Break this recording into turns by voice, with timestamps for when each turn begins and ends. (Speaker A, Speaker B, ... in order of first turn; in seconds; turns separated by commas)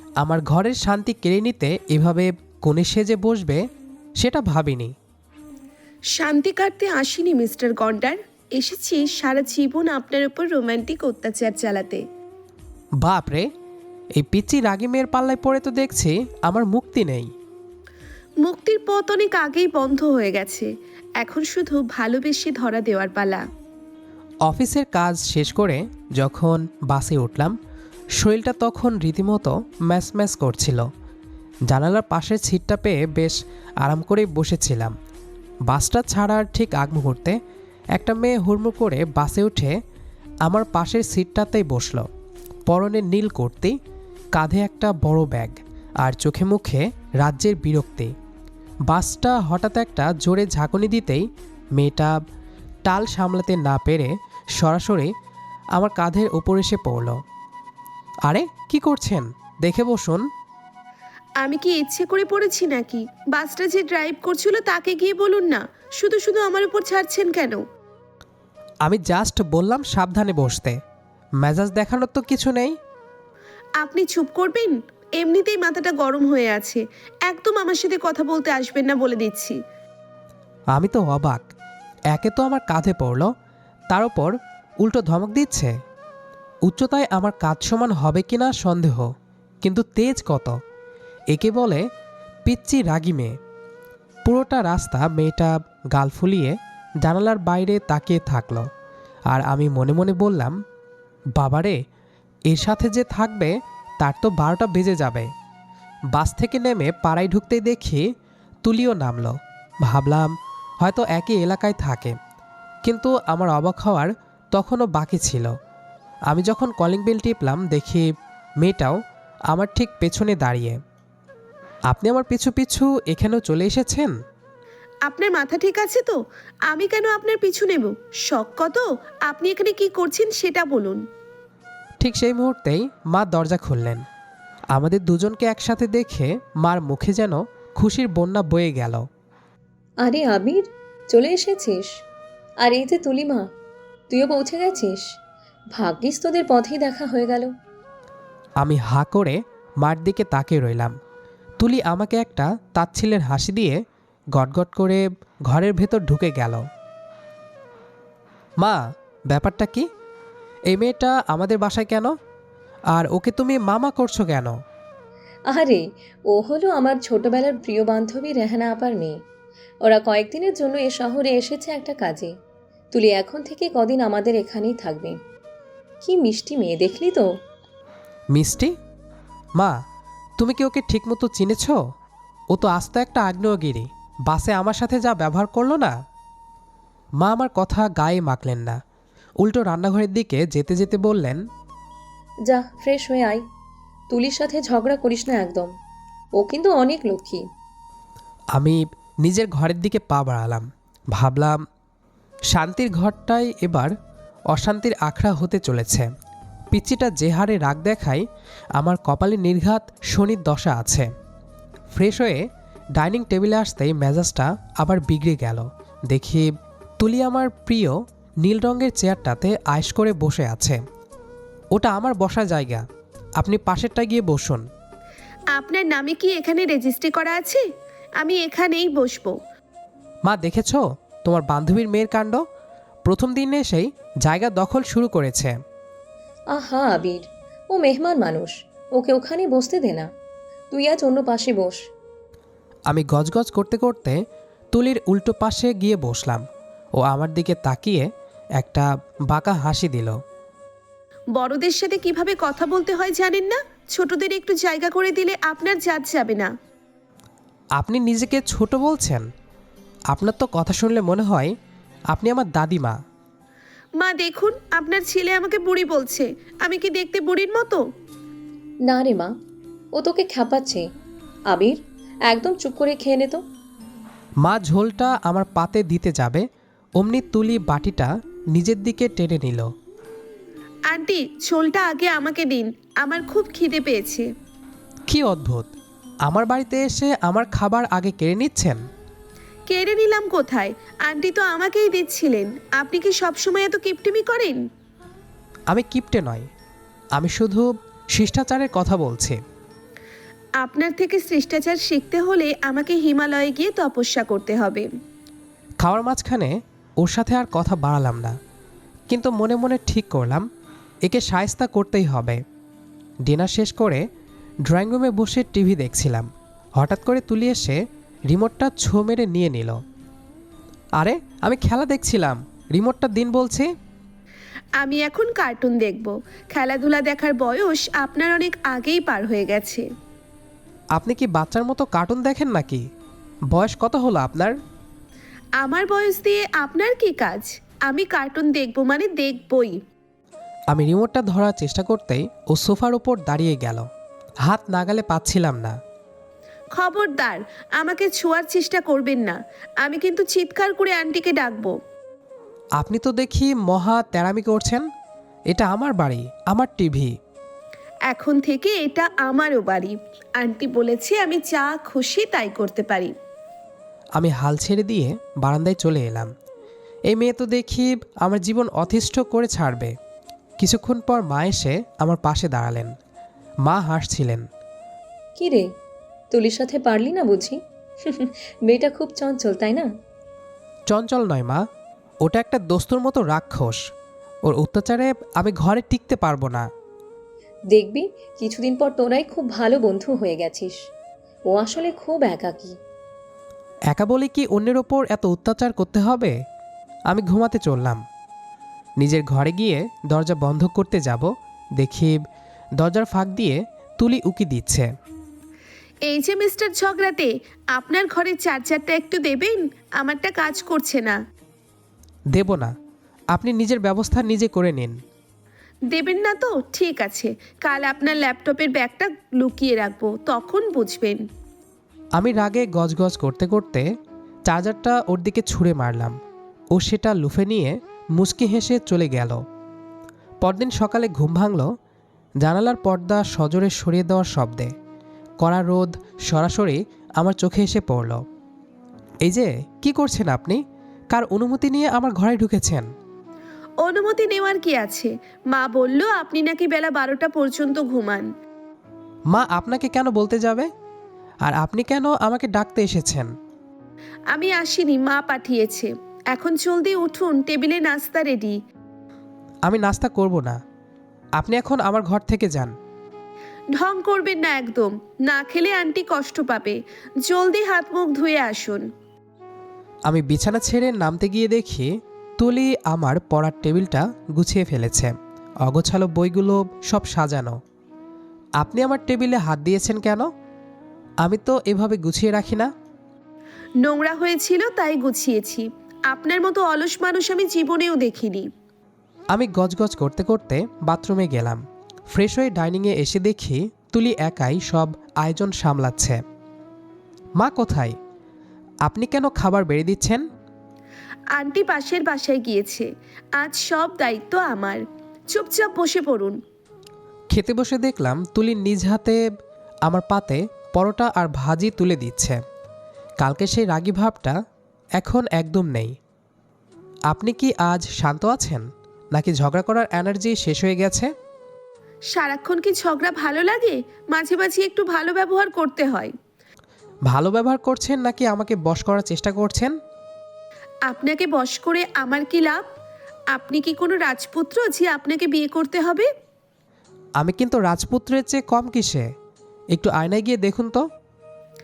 Speaker A: 0.2-3.6, Speaker A: 4.2-4.9, Speaker B: 6.1-12.0, Speaker A: 13.0-13.5, Speaker A: 14.2-17.3, Speaker B: 18.4-23.4, Speaker A: 24.5-27.5, Speaker A: 28.2-30.9, Speaker A: 31.7-34.9, Speaker A: 35.7-37.4, Speaker A: 37.9-39.8, Speaker A: 40.4-42.1, Speaker A: 42.7-43.8, Speaker A: 44.3-48.1, Speaker A: 48.9-52.2, Speaker A: 52.9-55.1, Speaker A: 55.8-57.2, Speaker A: 58.2-60.3, Speaker B: 61.4-67.6, Speaker A: 68.8-70.8, Speaker A: 71.4-72.8, Speaker B: 73.8-79.6, Speaker A: 80.7-81.5, Speaker A: 82.1-83.3, Speaker A: 83.9-85.7, Speaker A: 86.7-89.1, Speaker A: 89.6-90.6, Speaker A: 91.3-91.8, Speaker A: 92.5-93.4, Speaker A: 94.2-98.7, Speaker A: 99.3-100.6, Speaker A: 101.3-101.8, Speaker A: 102.5-105.3, Speaker A: 106.1-108.1, Speaker A: 108.6-112.2, Speaker A: 112.8-115.5, Speaker A: 116.3-118.1, Speaker A: 118.6-119.0, Speaker A: 119.5-120.8, Speaker A: 121.9-124.2, Speaker B: 125.0-131.1, Speaker A: 132.0-134.0, Speaker A: 134.7-139.1, Speaker C: 140.0-142.0, Speaker C: 142.6-143.5, Speaker C: 144.1-145.1, Speaker C: 145.7-147.5, Speaker A: 148.6-150.9, Speaker A: 151.6-153.8, Speaker A: 154.3-156.6, Speaker A: 158.6-159.9, Speaker A: 160.7-162.1, Speaker A: 162.9-164.6, Speaker C: 165.5-169.2, Speaker C: 169.8-172.4, Speaker C: 172.9-175.2, Speaker C: 176.0-177.3, Speaker A: 178.3-178.7, Speaker A: 180.4-181.8, Speaker A: 182.5-185.9, Speaker A: 187.2-188.8, Speaker A: 189.4-191.4, Speaker C: 192.4-193.4, Speaker C: 194.1-195.7, Speaker C: 196.3-197.5, Speaker A: 198.6-201.6, Speaker A: 202.5-203.9, Speaker A: 204.5-206.1, Speaker A: 206.7-208.2, Speaker A: 208.8-211.1, Speaker A: 211.9-220.8, Speaker A: 221.7-222.8, Speaker A: 223.4-224.7, Speaker B: 225.5-227.6, Speaker B: 228.2-229.4, Speaker A: 230.2-232.4, Speaker A: 233.1-235.6, Speaker C: 236.5-240.1, Speaker C: 240.7-241.8, Speaker A: 242.9-244.2, Speaker A: 244.7-246.4, Speaker A: 247.0-250.2, Speaker B: 251.3-256.5, Speaker A: 257.8-259.3, Speaker A: 260.1-261.6, Speaker A: 262.1-263.0, Speaker B: 264.0-267.9, Speaker C: 268.9-269.3, Speaker C: 269.9-270.9, Speaker C: 271.5-273.4, Speaker A: 274.4-276.4, Speaker A: 277.0-279.7, Speaker B: 280.9-284.3, Speaker A: 285.1-285.7, Speaker A: 286.3-288.8, Speaker B: 289.7-294.7, Speaker A: 295.7-296.5, Speaker A: 297.1-299.4, Speaker B: 300.6-304.9, Speaker A: 305.8-308.4, Speaker A: 309.1-310.5, Speaker A: 311.0-312.4, Speaker A: 313.2-314.0, Speaker A: 314.6-319.8, Speaker A: 321.0-323.7, Speaker B: 324.8-329.9, Speaker A: 331.0-332.8, Speaker A: 333.5-334.6, Speaker B: 335.6-339.8, Speaker A: 340.7-343.9, Speaker A: 344.4-345.8, Speaker B: 346.7-351.8, Speaker A: 352.8-354.9, Speaker A: 355.5-357.1, Speaker B: 358.1-363.1, Speaker A: 364.2-366.3, Speaker A: 367.1-369.9, Speaker A: 370.6-372.9, Speaker A: 373.6-374.4, Speaker C: 375.4-375.7, Speaker C: 376.3-379.9, Speaker A: 380.9-381.6, Speaker A: 382.2-383.9, Speaker A: 384.4-386.7, Speaker C: 387.7-390.9, Speaker C: 391.5-392.8, Speaker A: 393.9-396.3, Speaker A: 397.1-398.0, Speaker A: 399.0-402.2, Speaker A: 402.8-404.9, Speaker B: 406.1-411.2, Speaker A: 412.3-412.7, Speaker A: 413.3-415.0, Speaker B: 415.9-421.2, Speaker A: 422.2-423.9, Speaker A: 424.5-426.2, Speaker A: 426.7-429.4, Speaker A: 430.4-431.7, Speaker A: 432.4-434.7, Speaker A: 435.4-438.2, Speaker A: 439.2-440.6, Speaker A: 441.1-442.9, Speaker B: 443.8-448.3, Speaker A: 449.3-450.7, Speaker A: 451.4-453.3, Speaker B: 454.3-458.6, Speaker A: 459.6-460.6, Speaker A: 461.4-462.7, Speaker B: 463.7-468.9, Speaker A: 470.1-477.6, Speaker A: 478.6-480.3, Speaker A: 481.2-482.7, Speaker B: 483.8-488.5, Speaker A: 489.3-496.2, Speaker A: 497.4-498.0, Speaker A: 498.8-500.3, Speaker B: 501.3-506.4, Speaker A: 507.3-509.2, Speaker A: 509.8-512.4, Speaker A: 513.2-514.4, Speaker A: 515.0-516.0, Speaker A: 517.1-521.1, Speaker B: 522.1-526.1, Speaker A: 527.1-529.8, Speaker B: 530.9-532.7, Speaker B: 533.3-536.1, Speaker A: 537.2-539.1, Speaker A: 539.7-540.9